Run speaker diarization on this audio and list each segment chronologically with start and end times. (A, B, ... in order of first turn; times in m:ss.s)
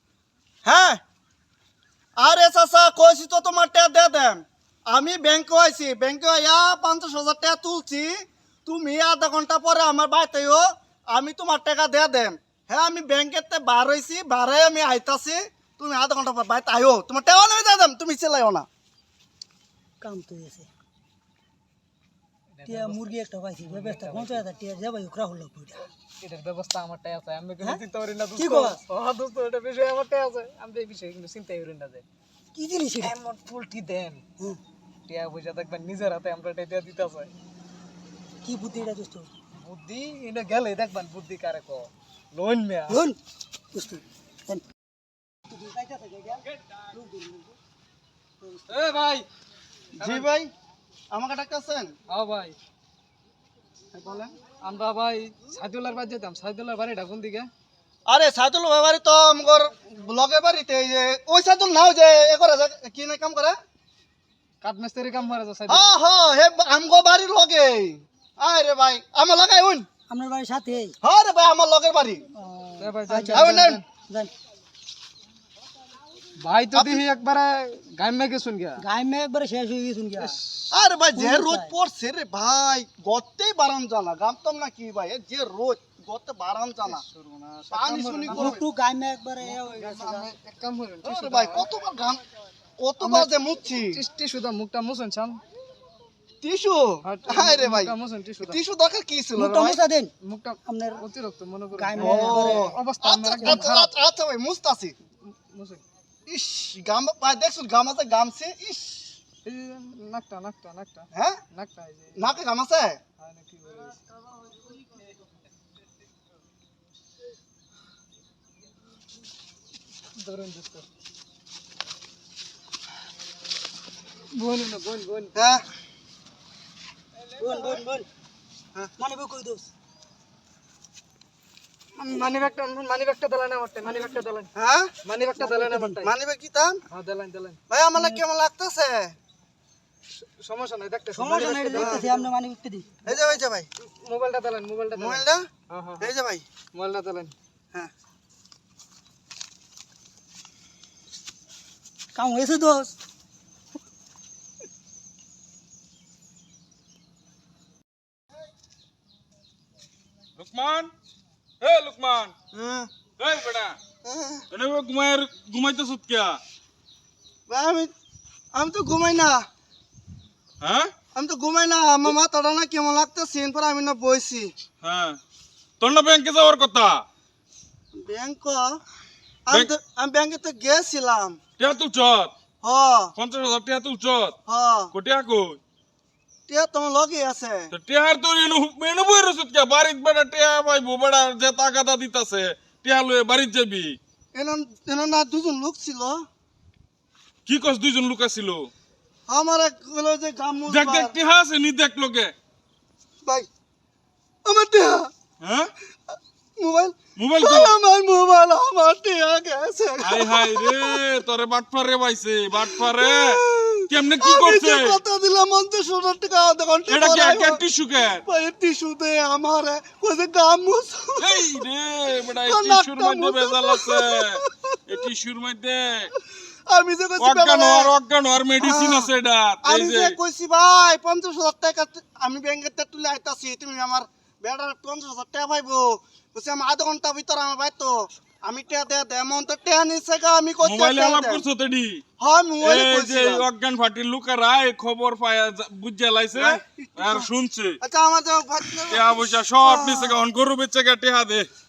0:00.6-0:01.0 A
0:02.2-0:08.1 A
0:08.6-0:18.7 A
0:20.0-0:20.7 B
0:22.6-0:23.0 C
0:22.6-0:25.9 B
0:23.7-0:24.4 C
0:26.2-0:32.0 C
0:28.4-0:28.8 B
0:32.5-0:33.2 B
0:33.0-0:34.2 C
0:35.1-0:37.3 C
0:38.4-0:39.3 B
0:39.6-0:43.0 C
0:42.9-0:43.2 B
0:43.7-0:44.6 B
0:45.5-0:47.5 B
0:48.4-0:48.7 B
0:48.7-0:49.2 C
0:50.0-0:50.3 C
0:50.0-0:50.5 A
0:51.1-0:51.9 A
0:52.1-0:52.6 C
0:53.9-0:54.3 A
0:54.6-0:57.5 C
0:58.1-1:03.6 A
1:04.6-1:05.9 C
1:05.7-1:09.9 A
1:10.1-1:11.0 B
1:11.0-1:12.2 A
1:12.3-1:14.3 B
1:12.8-1:13.8 C
1:13.3-1:13.8 A
1:16.4-1:18.8 C
1:16.7-1:17.0 A
1:18.8-1:20.4 B
1:20.7-1:27.0 A
1:21.1-1:21.7 B
1:26.8-1:28.6 C
1:27.7-1:28.6 A
1:28.3-1:30.3 B
1:29.4-1:31.6 C
1:31.0-1:32.2 A
1:32.8-1:34.0 A
1:33.0-1:33.3 C
1:33.8-1:35.4 C
1:36.4-1:39.8 A
1:37.0-1:38.6 C
1:39.4-1:40.1 B
1:40.2-1:43.9 C
1:40.6-1:41.0 B
1:41.7-1:42.8 B
1:42.0-1:44.9 A
1:43.4-1:43.7 B
1:45.3-1:45.8 C
1:46.3-1:49.1 A
1:49.4-1:52.4 C
1:51.1-1:51.4 A
1:52.2-1:53.0 A
1:53.2-1:54.0 C
2:00.2-2:00.8 C
2:04.3-2:05.3 C
2:05.4-2:05.6 A
2:07.4-2:08.1 B
2:09.0-2:09.7 B
2:12.0-2:14.5 C
2:14.6-2:14.9 A
2:15.0-2:16.1 C
2:15.4-2:16.0 B
2:16.0-2:16.8 A
2:16.9-2:17.6 C
2:17.7-2:19.1 A
2:17.9-2:18.2 B
2:20.2-2:22.3 C
2:21.1-2:23.1 B
2:21.6-2:22.0 A
2:23.0-2:23.7 A
2:23.8-2:26.1 C
2:25.0-2:25.4 A
2:26.0-2:26.4 A
2:26.7-2:27.3 C
2:32.1-2:32.9 B
2:40.4-2:40.9 D
2:41.6-2:42.3 D
2:42.5-2:42.9 A
2:43.2-2:43.8 D
2:44.0-2:44.5 A
2:44.5-2:46.4 D
2:47.5-2:47.9 A
2:48.5-2:49.4 A
2:50.6-2:50.9 D
2:51.1-2:54.5 A
2:54.8-2:55.2 D
2:55.8-2:57.0 D
2:58.0-2:58.8 A
2:59.4-3:01.4 A
3:01.6-3:02.3 D
3:02.6-3:03.1 A
3:03.2-3:04.3 D
3:04.4-3:04.9 A
3:04.9-3:05.6 D
3:06.5-3:07.7 A
3:07.7-3:14.0 D
3:14.3-3:16.2 A
3:17.4-3:18.7 D
3:19.3-3:21.1 A
3:20.7-3:22.3 D
3:24.4-3:25.1 A
3:25.4-3:25.7 D
3:26.1-3:31.1 A
3:27.2-3:27.8 D
3:30.0-3:35.0 D
3:32.6-3:37.6 A
3:36.9-3:38.2 D
3:38.2-3:41.5 A
3:41.2-3:46.1 D
3:42.4-3:44.5 A
3:46.7-3:47.9 A
3:47.2-3:50.2 D
3:48.6-3:49.1 A
3:49.6-4:01.4 A
4:00.6-4:02.0 D
4:02.2-4:03.4 A
4:02.6-4:07.8 D
4:06.3-4:07.3 A
4:07.8-4:10.2 A
4:08.9-4:11.5 D